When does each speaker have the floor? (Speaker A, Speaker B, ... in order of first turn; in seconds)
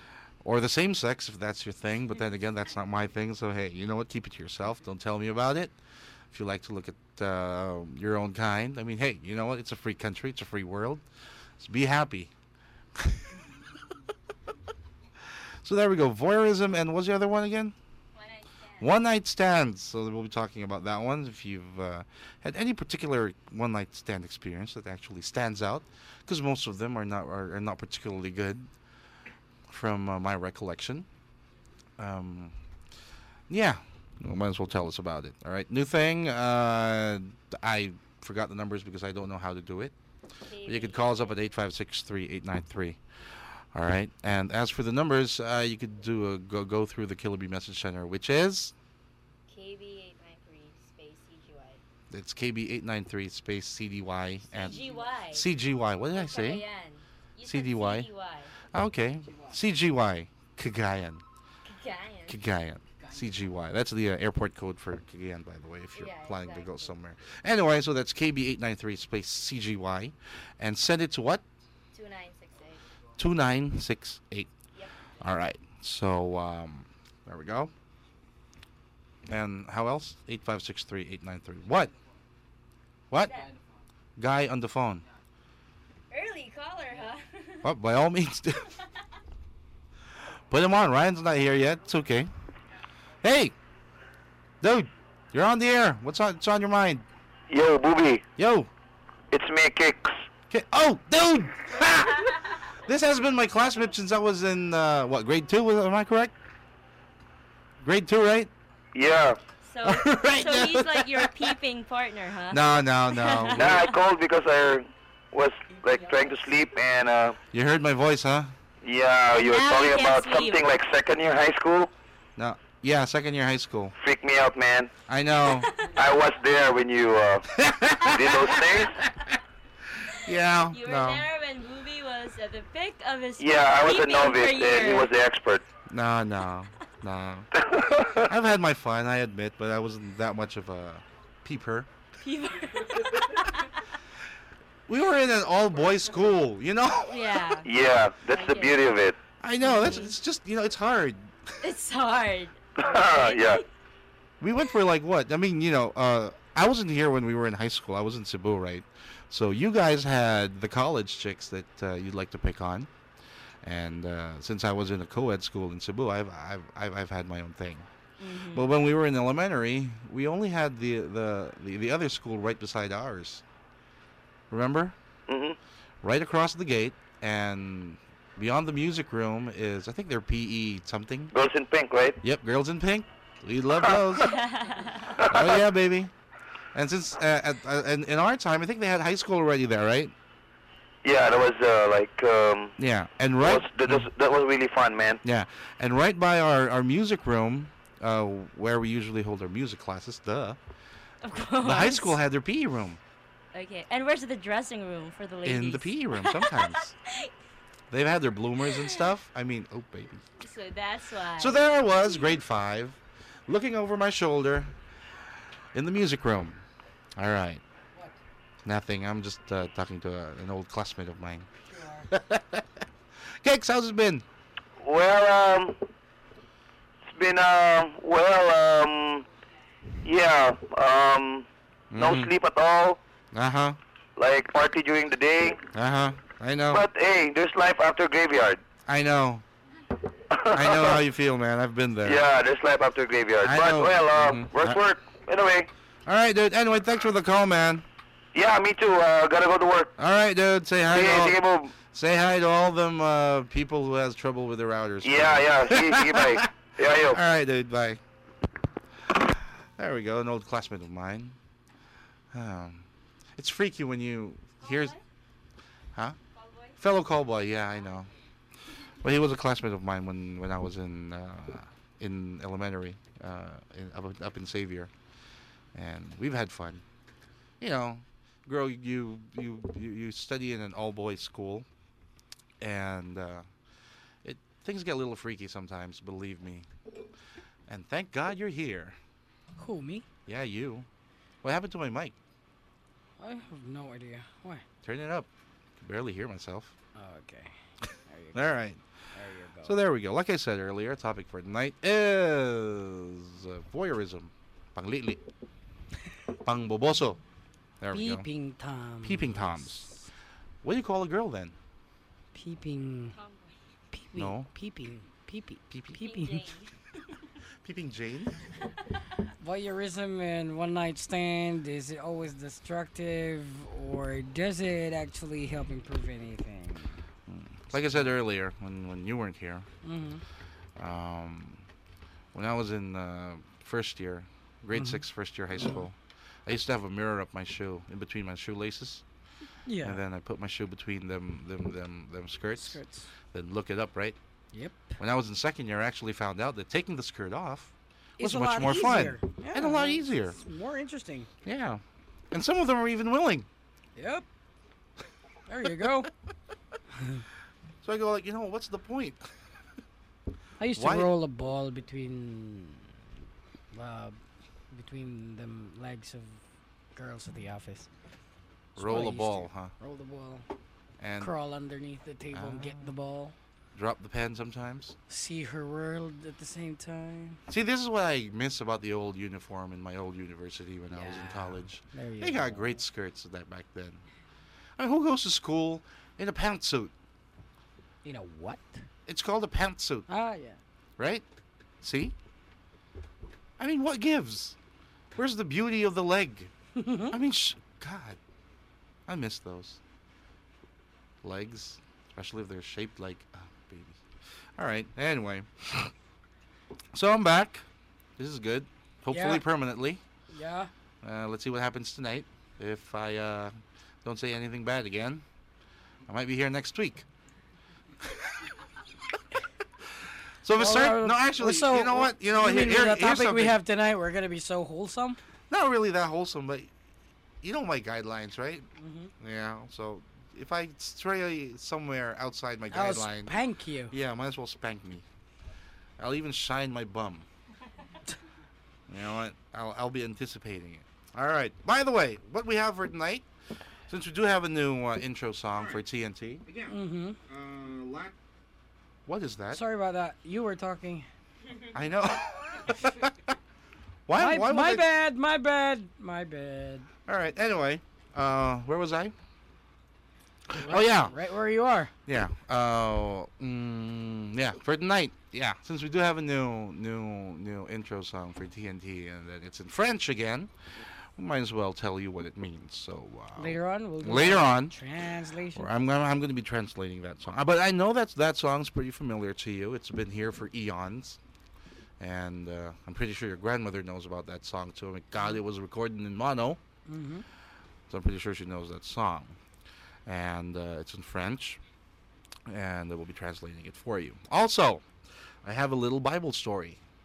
Speaker A: 0.4-5.7, 6.3-11.0, 11.6-12.3, 12.9-13.4, 15.6-17.7, 18.8-28.7, 29.7-31.1, 32.0-32.5, 33.5-39.9, 40.6-43.0, 43.7-48.7, 52.1-56.6, 57.4-58.1, 58.7-61.2, 62.3-71.4, 73.2-74.5, 75.2-77.7, 79.3-81.9, 84.2-85.0, 87.6-88.7, 90.5-92.3, 93.2-93.5, 94.6-97.0, 98.4-98.7, 100.5-106.3, 107.8-108.5, 109.8-111.5, 112.5-113.8, 117.5-118.5, 122.4-123.9, 125.1-125.7, 127.5-129.0, 130.0-131.3, 135.9-137.5, 138.2-141.9, 144.9-147.5, 149.4-151.5, 154.4-162.9, 163.6-167.8, 168.5-173.4, 174.5-174.9, 176.0-181.3, 182.2-184.4, 185.2-186.1, 186.7-190.1, 192.8-194.1, 195.2-200.6, 201.6-203.0, 205.4-206.9, 207.9-210.2, 211.4-214.7, 215.7-216.6, 217.2-217.6, 218.6-221.5, 222.1-222.7, 223.4-224.2, 231.9-232.3, 233.3-233.8, 235.7-236.8, 238.8-239.4, 240.5-242.3, 243.4-244.8, 246.1-247.8, 250.0-258.0, 259.1-261.4, 262.3-262.9, 263.4-264.9, 266.8-268.1, 269.0-274.9, 275.7-276.8, 277.6-281.6, 282.6-283.4, 284.2-286.7, 287.7-288.9, 290.2-290.9, 291.4-292.1, 294.8-295.3, 295.8-296.7, 298.3-298.8, 299.6-305.2, 306.4-307.2, 307.8-308.2, 309.0-309.9, 310.6-311.5, 314.1-314.5, 315.7-316.0, 317.6-318.5, 327.3-329.7, 330.8-331.6, 332.3-339.0, 339.8-342.8, 343.3-344.1, 345.0-350.4, 351.4-353.5, 357.8-359.2, 360.7-361.1, 368.8-369.7, 371.0-371.3, 372.3-372.9, 373.7-374.9, 377.5-384.0, 384.8-386.9, 389.1-390.1, 391.0-391.2, 391.8-392.1, 393.6-394.6, 395.1-396.5, 397.1-398.2, 399.1-399.8, 401.2-404.0, 404.6-405.9, 406.9-407.6, 408.2-410.0, 411.0-415.2, 416.1-417.1, 418.0-418.5, 419.9-423.6, 425.5-426.7, 427.4-428.7, 429.2-433.3, 433.9-435.0, 436.0-437.2, 438.9-443.3, 443.9-446.7, 447.3-448.1, 449.1-449.6, 451.7-453.4, 454.1-454.9, 457.1-459.1, 460.5-461.1, 462.1-474.8, 475.5-481.2, 482.0-486.6, 487.9-489.4, 490.1-491.6, 492.5-494.9, 495.4-496.8
Speaker B: 18.1-18.9, 40.4-41.4, 49.5-51.8, 54.5-55.5, 56.1-58.5, 61.6-62.4, 65.9-66.9, 71.9-72.9, 83.2-83.5, 86.1-87.7, 109.6-113.9, 119.3-120.6, 125.5-125.9, 130.6-135.1, 142.2-143.8, 147.1-147.7, 148.3-148.9, 149.6-150.2, 151.6-153.7, 168.2-168.7, 184.2-185.2, 201.2-202.2, 203.5-207.3, 208.6-209.1, 210.4-212.3, 264.6-265.0, 266.3-266.8, 313.1-313.6, 315.9-316.7
Speaker C: 97.5-98.2, 99.3-100.2, 108.9-109.4, 113.5-117.4, 118.8-121.9, 124.0-124.9, 125.8-127.5, 128.0-129.1, 133.4-135.6, 137.5-138.3, 147.6-149.1, 152.8-153.6, 175.3-175.6, 181.3-182.2, 185.2-185.6, 191.0-192.7, 193.4-195.2, 224.8-225.8, 227.1-229.2, 230.0-233.0, 234.2-235.6, 236.7-238.6, 240.3-241.0, 242.0-245.7, 248.3-249.9, 250.9-251.7, 255.0-257.2
Speaker D: 289.6-290.1, 293.2-294.6, 296.9-297.5, 298.1-298.5, 299.1-299.8, 307.9-310.0, 312.3-313.1, 313.9-316.5, 319.4-327.0, 329.8-330.2, 334.7-335.0, 339.6-340.0, 342.6-343.1, 344.5-345.0, 348.2-351.3, 353.9-354.2, 355.5-356.1, 356.9-357.2, 360.6-362.9, 363.7-364.2, 364.7-366.4, 366.9-367.9, 368.8-370.4, 371.2-373.3, 375.1-377.4, 380.9-382.8, 388.0-388.8, 390.1-390.6, 396.7-397.1, 409.1-409.4, 410.3-410.7, 420.5-425.2, 428.8-429.1, 432.7-433.9, 446.7-447.2, 449.5-451.1, 454.1-456.9, 460.5-461.9, 473.4-475.7, 486.9-487.2